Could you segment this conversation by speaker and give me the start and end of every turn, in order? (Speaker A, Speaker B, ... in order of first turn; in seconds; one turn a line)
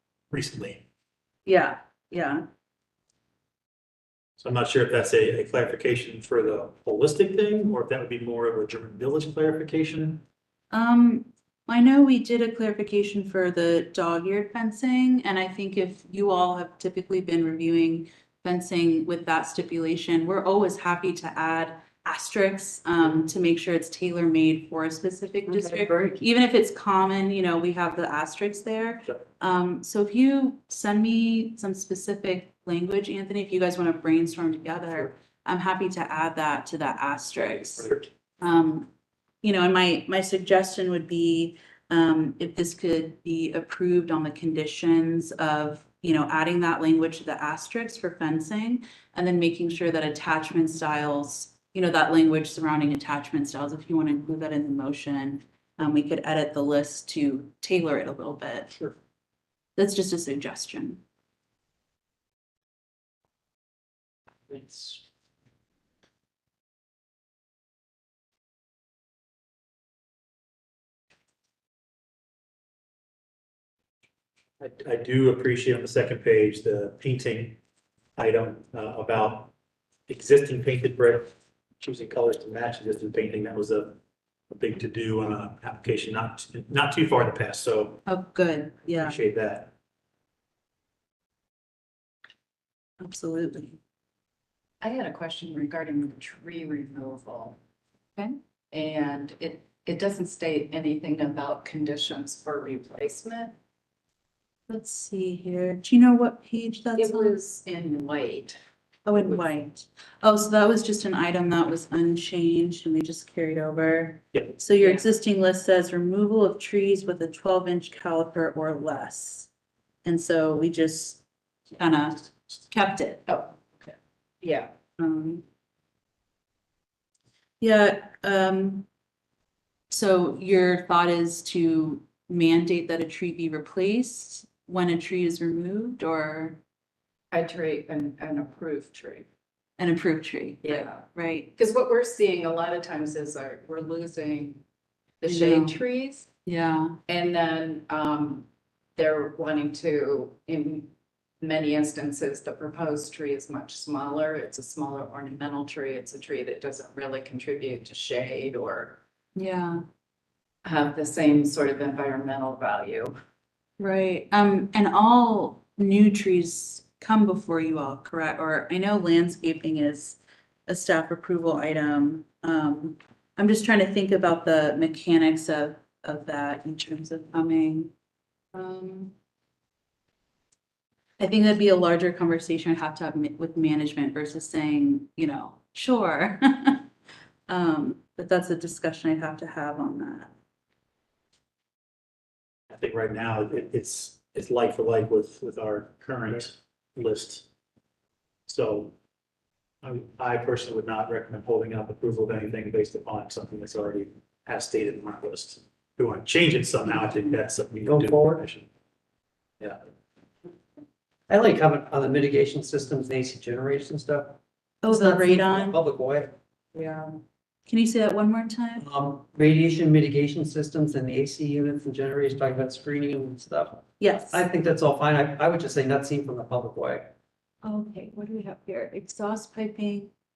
Speaker A: 0.3-0.8
Speaker B: 1.5-2.4
Speaker A: 4.4-10.2
Speaker B: 10.7-38.9
Speaker C: 25.5-26.2
Speaker B: 39.4-58.9
Speaker B: 59.8-61.0
Speaker A: 64.5-65.0
Speaker A: 74.6-77.6
Speaker A: 78.2-79.5
Speaker A: 80.1-84.0
Speaker A: 84.5-88.0
Speaker B: 88.1-89.2
Speaker A: 89.0-89.7
Speaker B: 93.0-93.8
Speaker D: 94.8-97.6
Speaker D: 98.2-103.5
Speaker B: 104.7-107.4
Speaker D: 107.0-108.6
Speaker B: 109.0-119.5
Speaker D: 114.8-115.0
Speaker B: 120.0-121.2
Speaker B: 121.8-123.3
Speaker D: 123.3-124.7
Speaker B: 125.0-125.4
Speaker B: 127.6-128.9
Speaker B: 129.9-136.6
Speaker D: 137.3-139.3
Speaker B: 139.8-141.5
Speaker D: 140.6-141.0
Speaker D: 141.6-144.6
Speaker D: 145.2-146.3
Speaker B: 145.2-145.8
Speaker B: 146.5-147.0
Speaker D: 147.1-159.0
Speaker B: 159.3-159.8
Speaker D: 160.6-163.1
Speaker B: 163.8-177.9
Speaker B: 178.5-179.1
Speaker B: 181.2-186.8
Speaker B: 187.5-190.3
Speaker A: 192.7-197.5
Speaker A: 198.5-198.9
Speaker A: 199.8-208.7
Speaker C: 207.8-208.4
Speaker C: 211.3-216.3
Speaker B: 214.8-215.8
Speaker B: 217.7-218.9
Speaker C: 218.8-227.1
Speaker B: 224.0-224.4
Speaker B: 227.6-230.1